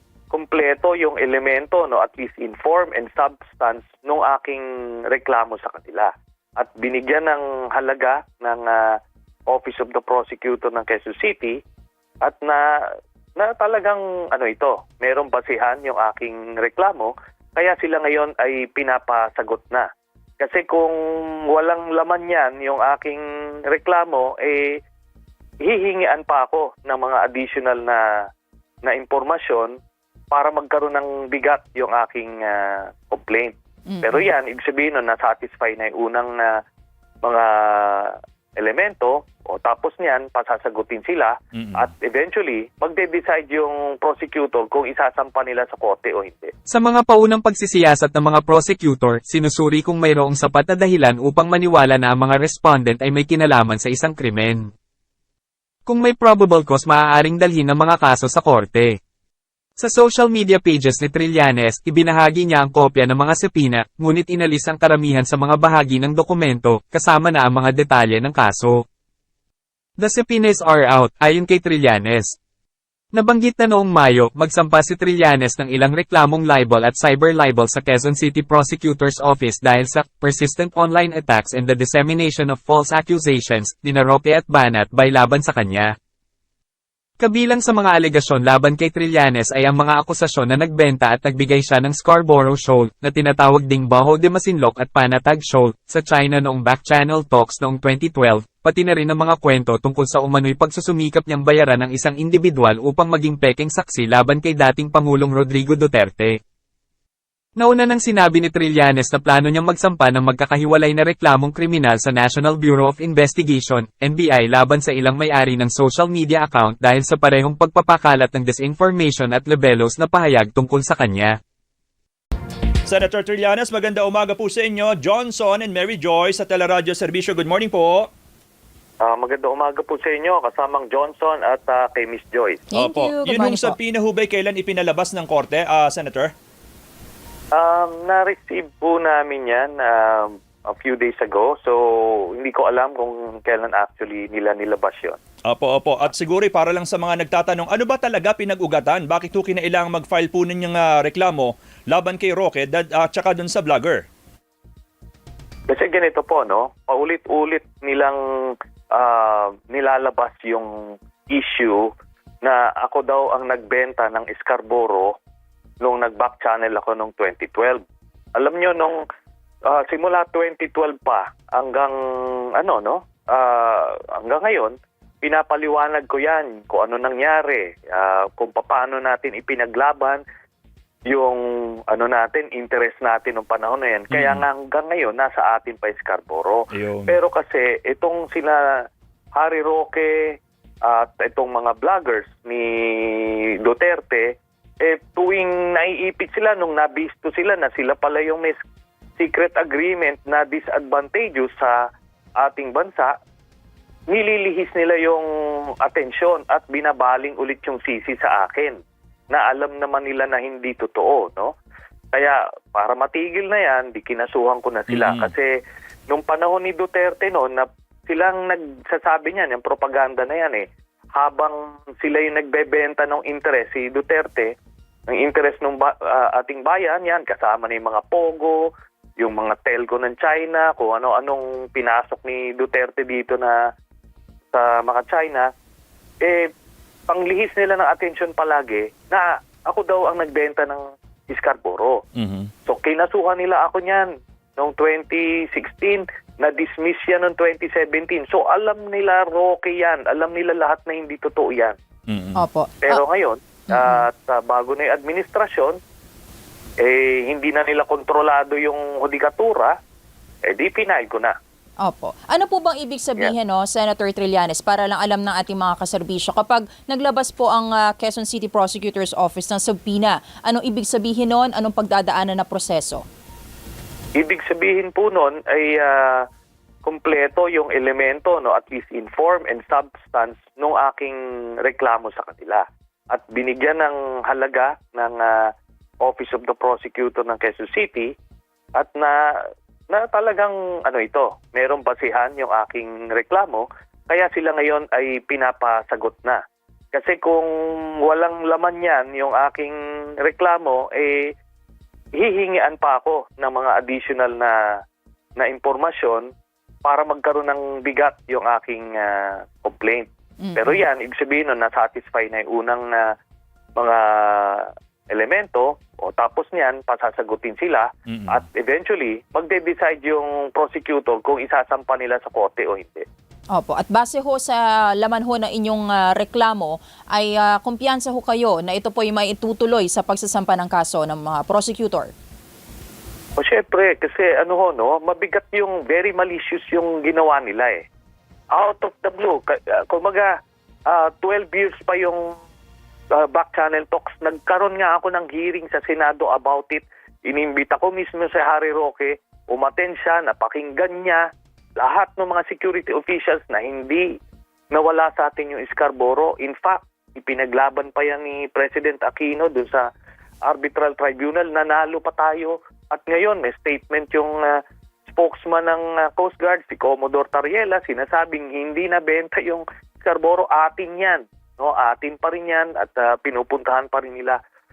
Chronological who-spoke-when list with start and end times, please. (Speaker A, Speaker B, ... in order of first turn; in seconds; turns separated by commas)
Speaker A: 0.3-8.9, Speaker A: 9.5-11.6, Speaker A: 12.2-19.9, Speaker A: 20.4-20.9, Speaker A: 21.5-24.8, Speaker A: 25.6-28.0, Speaker A: 28.8-29.8, Speaker A: 30.3-36.6, Speaker B: 33.9-34.3, Speaker A: 37.2-46.5, Speaker C: 41.5-41.9, Speaker D: 46.7-54.7, Speaker D: 55.9-59.0, Speaker D: 59.8-68.8, Speaker D: 70.0-72.3, Speaker D: 73.1-85.9, Speaker D: 87.2-106.4, Speaker D: 107.6-121.4, Speaker C: 122.8-128.1, Speaker A: 129.0-132.6, Speaker B: 132.7-133.8, Speaker C: 132.7-136.3, Speaker A: 137.5-141.8, Speaker A: 142.3-145.2, Speaker C: 145.4-154.0, Speaker A: 155.7-160.7, Speaker A: 161.3-161.9, Speaker A: 162.4-165.1, Speaker A: 165.8-167.8, Speaker A: 168.3-169.0, Speaker A: 169.7-180.2, Speaker A: 181.1-198.6, Speaker C: 184.1-184.4, Speaker C: 186.7-187.2, Speaker A: 199.2-201.8, Speaker A: 202.4-203.1, Speaker A: 204.1-208.8, Speaker A: 209.3-211.5, Speaker A: 212.1-215.5, Speaker C: 214.9-215.3, Speaker A: 216.1-224.5, Speaker A: 225.1-233.6, Speaker A: 234.5-235.5, Speaker A: 236.2-236.5, Speaker A: 237.1-242.0, Speaker C: 242.2-242.5, Speaker A: 242.7-251.8, Speaker C: 252.1-252.4, Speaker B: 252.4-253.0, Speaker A: 252.8-255.8, Speaker B: 253.7-254.0, Speaker A: 256.8-259.7, Speaker A: 260.4-261.3, Speaker B: 261.8-273.0, Speaker A: 274.1-276.2, Speaker A: 276.8-285.5, Speaker A: 286.0-288.1, Speaker A: 288.8-289.2, Speaker A: 289.9-296.4, Speaker A: 296.9-297.5, Speaker A: 298.0-301.3, Speaker A: 302.2-304.6, Speaker A: 305.4-306.3, Speaker A: 306.8-313.1, Speaker B: 310.4-310.8, Speaker A: 313.8-323.0, Speaker C: 318.1-318.4, Speaker B: 323.5-332.1, Speaker A: 333.4-337.8, Speaker A: 338.5-340.3, Speaker A: 340.9-342.3, Speaker A: 343.1-351.2, Speaker A: 351.8-354.0, Speaker A: 354.7-359.9, Speaker A: 360.4-374.4